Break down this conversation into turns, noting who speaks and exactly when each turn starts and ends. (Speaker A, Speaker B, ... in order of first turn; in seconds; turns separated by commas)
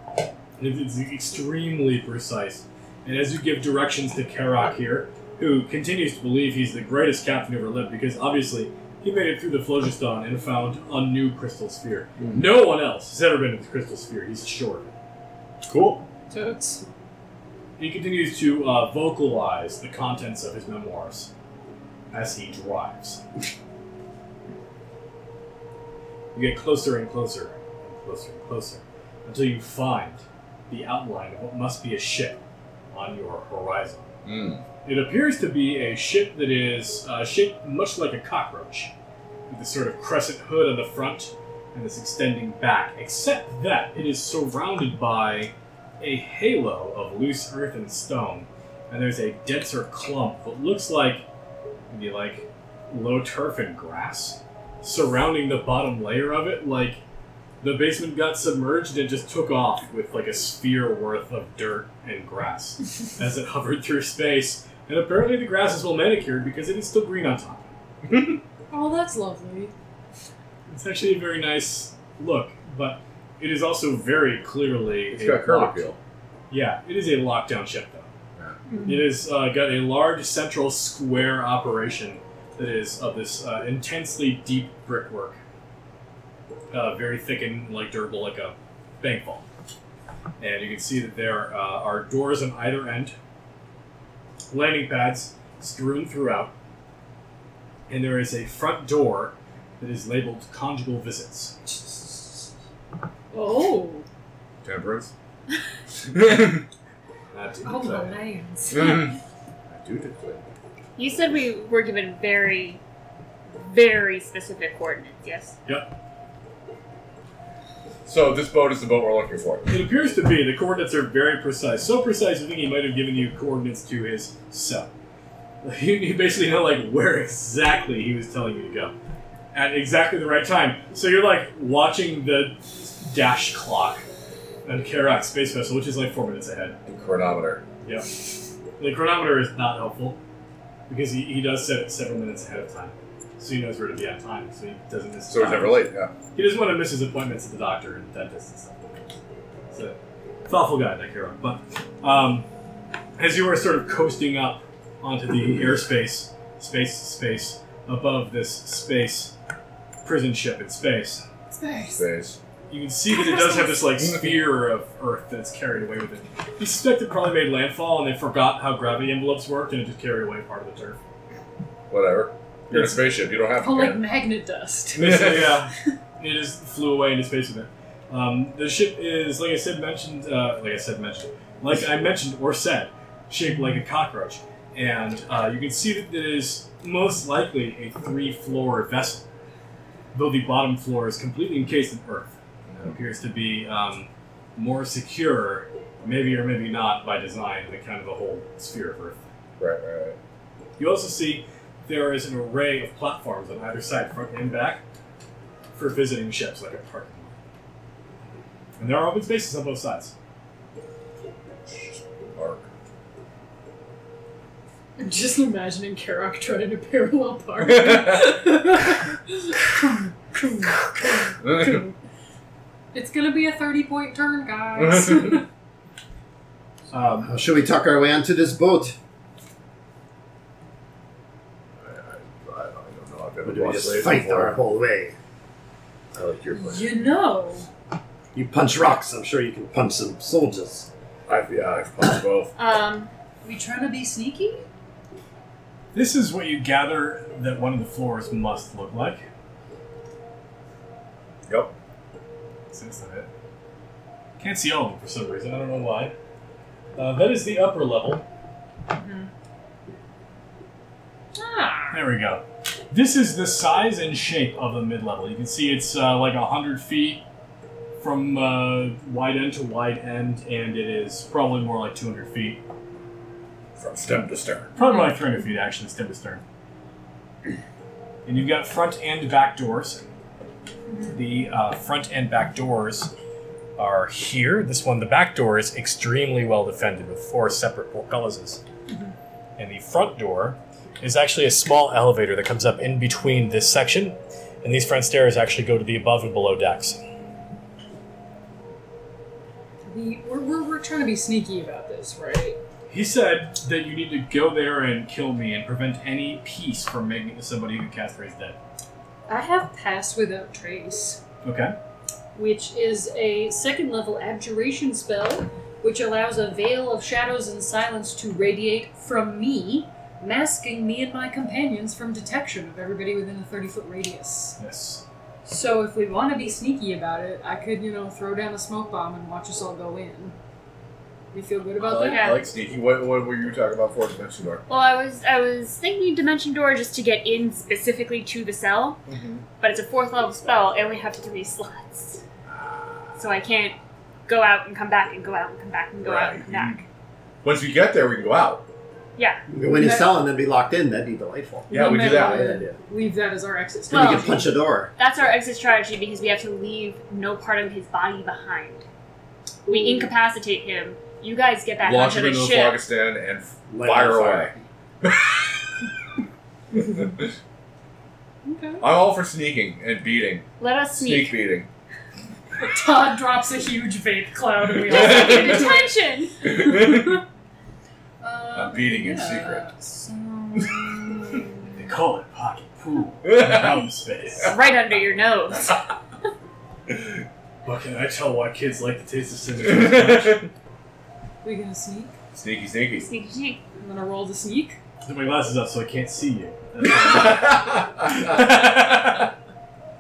Speaker A: 0.6-14.9, Speaker B: 12.2-12.4, Speaker B: 15.6-16.1, Speaker C: 16.3-16.8, Speaker A: 17.8-21.3, Speaker A: 22.1-23.2, Speaker A: 26.3-32.4, Speaker A: 32.9-34.1, Speaker B: 34.2-34.6, Speaker A: 34.9-38.9, Speaker A: 39.5-51.2, Speaker A: 51.9-57.0, Speaker A: 57.6-67.7, Speaker B: 68.1-68.4, Speaker C: 68.7-69.7, Speaker A: 70.7-75.9, Speaker B: 75.1-76.0, Speaker A: 76.5-78.1, Speaker A: 78.8-85.4, Speaker A: 86.7-89.5, Speaker A: 90.4-93.2, Speaker A: 94.5-96.5, Speaker A: 97.9-101.6, Speaker C: 103.3-104.0, Speaker B: 104.6-105.1, Speaker B: 106.0-106.7, Speaker A: 107.3-108.2, Speaker C: 107.6-109.1, Speaker B: 108.7-109.2, Speaker B: 109.7-110.4, Speaker D: 111.0-112.8, Speaker D: 113.6-115.6, Speaker A: 115.7-115.9, Speaker B: 118.0-119.7, Speaker A: 119.7-124.9, Speaker A: 125.6-128.9, Speaker A: 129.5-134.1, Speaker A: 134.6-136.8, Speaker B: 136.9-137.6, Speaker A: 137.8-140.2, Speaker A: 140.9-149.0, Speaker B: 145.3-146.1, Speaker A: 149.7-152.5, Speaker A: 153.2-159.3, Speaker A: 160.0-161.2, Speaker C: 161.5-162.0, Speaker B: 161.9-162.4, Speaker A: 162.7-171.0, Speaker C: 163.1-163.9, Speaker B: 171.9-174.1, Speaker A: 172.7-173.1, Speaker C: 173.6-175.5, Speaker A: 174.9-189.3, Speaker B: 175.0-175.4, Speaker A: 190.1-199.2, Speaker B: 192.7-192.9, Speaker B: 199.6-200.2, Speaker A: 200.8-204.8, Speaker A: 205.7-207.4, Speaker A: 208.8-210.1, Speaker B: 212.3-212.7, Speaker C: 215.0-221.9, Speaker B: 217.6-218.2, Speaker B: 221.4-221.8, Speaker C: 222.9-225.4, Speaker B: 224.8-225.4, Speaker A: 226.9-227.3, Speaker E: 227.2-228.9, Speaker B: 231.8-234.6, Speaker E: 233.4-235.1, Speaker B: 236.1-237.1, Speaker C: 236.5-237.7, Speaker E: 238.3-240.9, Speaker B: 241.3-242.5, Speaker D: 242.6-243.1, Speaker C: 243.4-244.6, Speaker A: 245.9-249.2, Speaker A: 252.7-253.3, Speaker A: 254.4-256.1, Speaker A: 256.9-258.2, Speaker C: 258.9-259.3, Speaker C: 261.4-262.0, Speaker A: 261.9-267.2, Speaker A: 268.0-272.6, Speaker B: 273.8-274.7, Speaker A: 274.8-276.4, Speaker C: 274.8-275.1, Speaker A: 278.2-280.0, Speaker A: 281.1-283.1, Speaker A: 283.8-288.6, Speaker A: 289.6-297.0, Speaker C: 299.9-302.6, Speaker A: 302.9-308.6, Speaker C: 309.3-311.2, Speaker A: 311.4-311.8, Speaker C: 312.3-324.6, Speaker A: 324.6-325.0, Speaker C: 325.4-330.4, Speaker C: 331.3-332.4, Speaker B: 331.8-334.6, Speaker D: 332.0-332.5, Speaker D: 334.7-339.0, Speaker B: 339.1-339.4, Speaker D: 339.6-342.2, Speaker B: 342.5-343.2, Speaker D: 343.1-346.8, Speaker B: 346.0-346.9, Speaker B: 347.4-348.6, Speaker E: 349.5-352.8, Speaker C: 349.7-350.1, Speaker C: 351.7-354.5, Speaker B: 351.7-352.5, Speaker E: 353.9-354.9, Speaker D: 353.9-354.3, Speaker D: 354.9-358.9, Speaker C: 359.6-360.1, Speaker D: 359.7-362.8, Speaker B: 361.8-364.5, Speaker E: 363.7-364.6, Speaker B: 365.0-365.4, Speaker B: 366.7-367.3, Speaker C: 368.4-368.9, Speaker B: 368.8-371.7, Speaker D: 370.6-371.4, Speaker C: 372.6-377.2, Speaker B: 374.8-375.7, Speaker D: 374.9-376.4, Speaker B: 376.4-377.2, Speaker C: 378.2-381.8, Speaker B: 378.5-379.6, Speaker A: 381.7-384.5, Speaker B: 383.2-383.8, Speaker D: 384.4-385.9, Speaker A: 387.6-390.4, Speaker B: 389.6-390.5, Speaker C: 391.4-392.1, Speaker B: 392.3-393.1, Speaker D: 392.9-393.6, Speaker C: 393.8-394.8, Speaker A: 395.0-399.3, Speaker B: 396.8-398.7